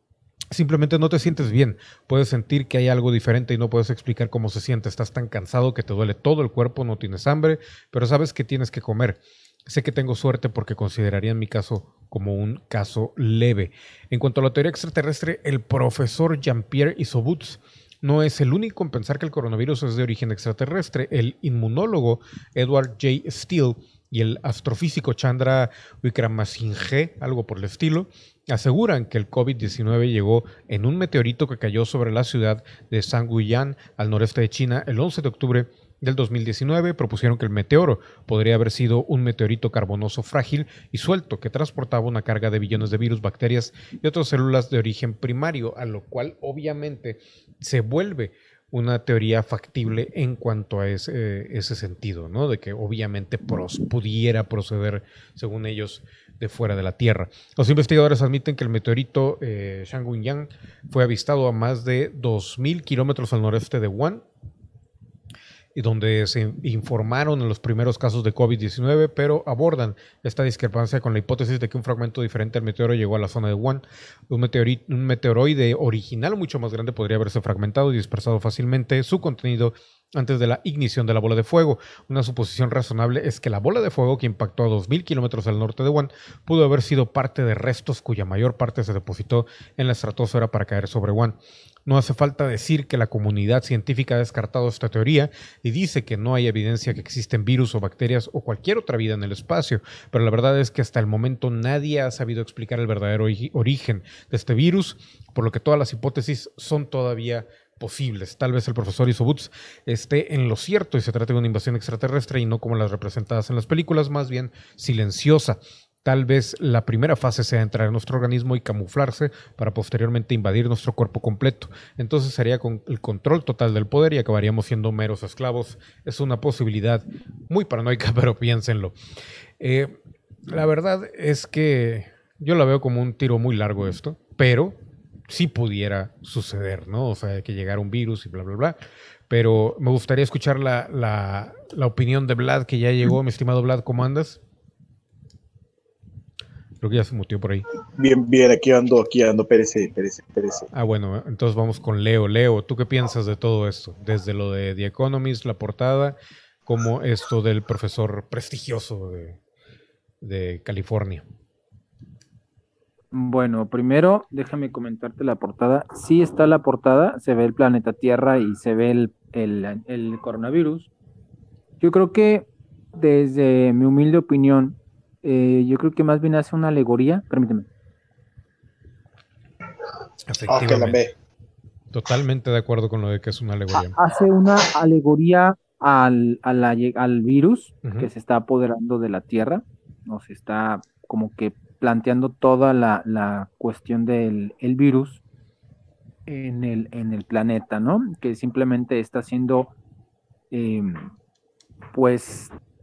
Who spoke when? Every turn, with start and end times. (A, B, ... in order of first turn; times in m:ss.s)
0:00.5-1:04.2 A
1:05.8-2:08.9 A
2:09.6-2:10.0 A
2:10.5-2:14.8 A
2:15.3-2:18.8 A
2:19.3-2:24.4 A
2:26.8-2:27.6 A
2:27.9-2:30.7 B
2:30.7-2:36.2 A
2:36.7-2:39.4 A
2:40.2-2:41.2 A
2:43.1-2:50.9 C
2:51.8-2:57.7 C
3:00.3-3:01.0 A
3:00.5-3:01.1 B
3:01.9-3:04.0 A
3:03.7-3:15.2 C
3:07.8-3:08.1 A
3:16.3-3:19.8 C
3:20.5-3:21.0 C
3:21.9-3:22.5 C